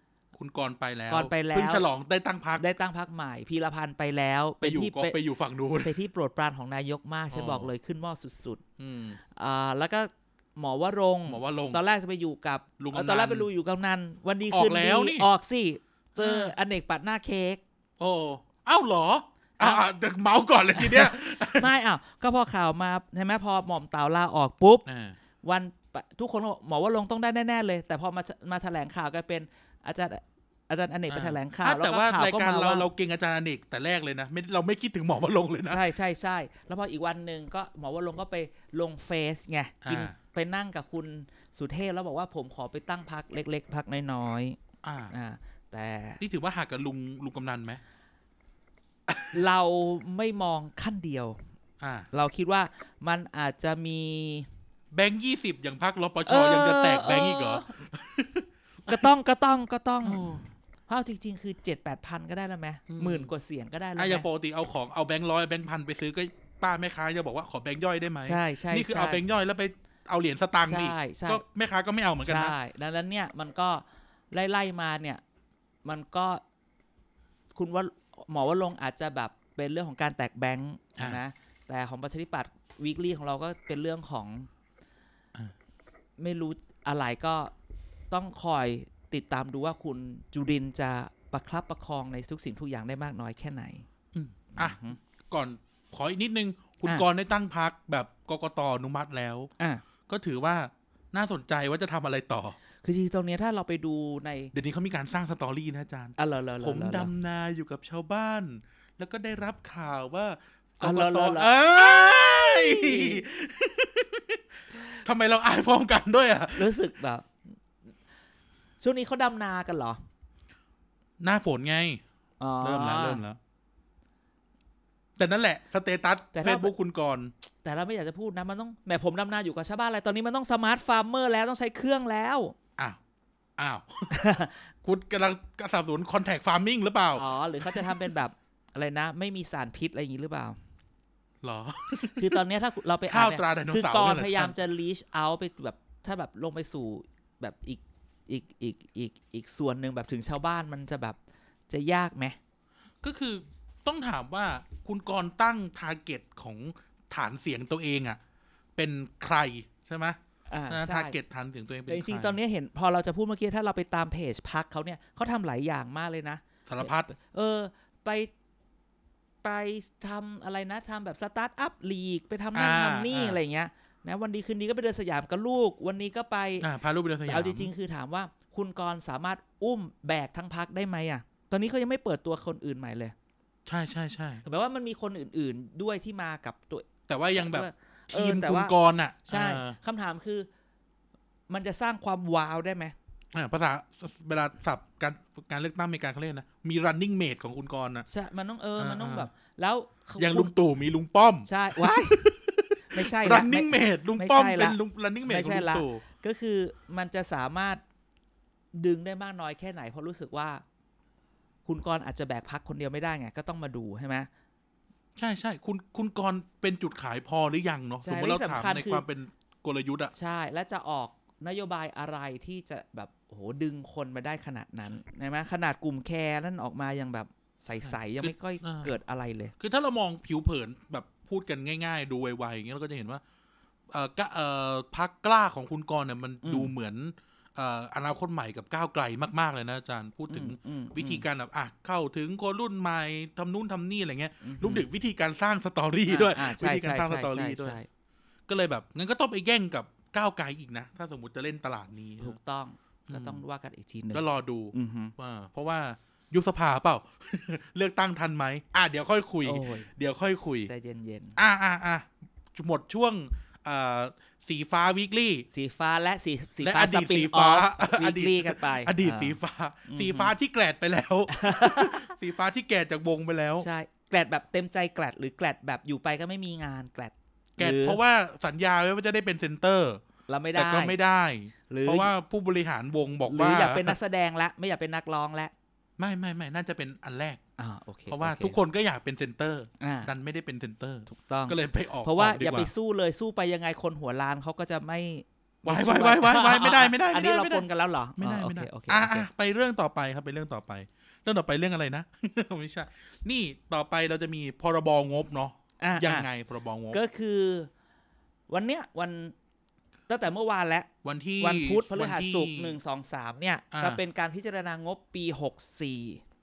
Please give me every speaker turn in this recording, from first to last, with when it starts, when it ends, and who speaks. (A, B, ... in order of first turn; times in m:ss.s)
0:00.3-0:02.6 A
0:01.1-0:01.8 B
0:02.6-0:05.2 B
0:04.6-0:05.9 A
0:05.8-0:08.6 B
0:07.3-0:07.7 A
0:08.8-0:09.2 A
0:09.4-0:17.6 B
0:11.3-0:11.8 A
0:12.8-0:13.5 A
0:14.5-0:15.3 A
0:16.2-0:16.5 A
0:18.0-0:21.7 A
0:20.8-0:24.8 B
0:24.9-0:25.2 A
0:25.4-0:32.9 B
0:31.1-0:35.8 A
0:35.7-0:44.6 B
0:39.8-0:40.2 A
0:44.8-0:45.1 A
0:45.1-0:46.2 B
0:46.2-0:47.8 A
0:49.1-0:49.3 A
0:49.3-0:51.4 B
0:51.8-0:52.1 A
0:52.1-0:54.5 B
0:54.9-0:59.1 A
0:56.2-0:57.7 B
0:58.9-1:04.3 B
1:00.0-1:00.4 A
1:02.9-1:03.3 A
1:04.0-1:12.5 A
1:08.2-1:09.2 B
1:10.7-1:11.4 B
1:12.2-1:15.2 B
1:15.8-1:16.4 B
1:17.5-1:24.5 B
1:26.2-1:27.5 B
1:28.1-1:33.9 B
1:34.1-1:34.8 A
1:34.5-1:35.0 B
1:35.3-1:39.5 A
1:40.1-1:42.6 A
1:42.8-1:44.5 B
1:44.5-1:56.8 A
1:46.2-1:47.1 B
1:50.8-1:53.2 B
1:56.6-1:57.3 B
1:58.8-2:00.0 B
2:01.2-2:02.0 A
2:02.4-2:03.2 B
2:02.6-2:03.4 A
2:05.2-2:07.3 A
2:06.3-2:06.7 B
2:07.6-2:12.6 B
2:13.6-2:14.2 A
2:14.1-2:14.7 B
2:14.8-2:18.1 A
2:17.2-2:20.6 B
2:21.4-2:22.4 A
2:22.1-2:31.2 B
2:23.1-2:24.6 A
2:31.7-2:32.4 B
2:33.0-2:38.2 A
2:38.8-2:40.2 A
2:40.5-2:41.2 B
2:40.7-2:42.4 A
2:41.9-2:48.3 B
2:46.7-2:47.1 A
2:49.4-2:56.7 B
2:52.6-2:53.4 A
2:56.6-2:57.7 A
2:57.3-3:03.2 B
3:03.7-3:04.4 A
3:04.4-3:10.5 B
3:07.1-3:09.8 A
3:11.5-3:13.0 B
3:13.3-3:18.1 A
3:18.1-3:20.5 B
3:18.8-3:19.3 A
3:20.2-3:26.0 A
3:21.4-3:22.2 B
3:22.9-3:27.8 B
3:28.7-3:30.6 B
3:31.7-3:34.3 B
3:35.2-3:40.1 A
3:38.0-3:39.0 B
3:40.1-3:49.5 B
3:47.8-3:48.9 A
3:49.6-3:53.2 A
3:53.9-4:07.8 A
3:56.4-3:56.7 B
4:00.3-4:01.2 B
4:04.4-4:04.9 B
4:06.1-4:07.9 B
4:08.5-4:12.4 A
4:12.2-4:15.1 B
4:13.1-4:13.4 A
4:14.1-4:20.7 A
4:19.4-4:19.9 B
4:20.7-4:21.4 B
4:21.4-4:25.5 A
4:25.5-4:30.3 B
4:26.6-4:33.7 A
4:31.3-4:32.1 B
4:33.6-4:38.0 B
4:37.6-4:40.0 A
4:40.3-4:41.0 B
4:40.6-4:44.0 A
4:41.7-4:42.1 B
4:43.3-4:45.5 B
4:46.0-4:47.4 A
4:47.6-4:48.6 B
4:48.1-4:52.7 A
4:49.8-4:50.1 B
4:51.1-4:59.3 B
4:55.6-5:07.0 A
5:05.8-5:06.3 B
5:06.9-5:07.7 B
5:08.5-5:09.3 B
5:10.1-5:10.9 B
5:11.0-5:12.8 A
5:11.4-5:16.2 B
5:13.7-5:14.0 A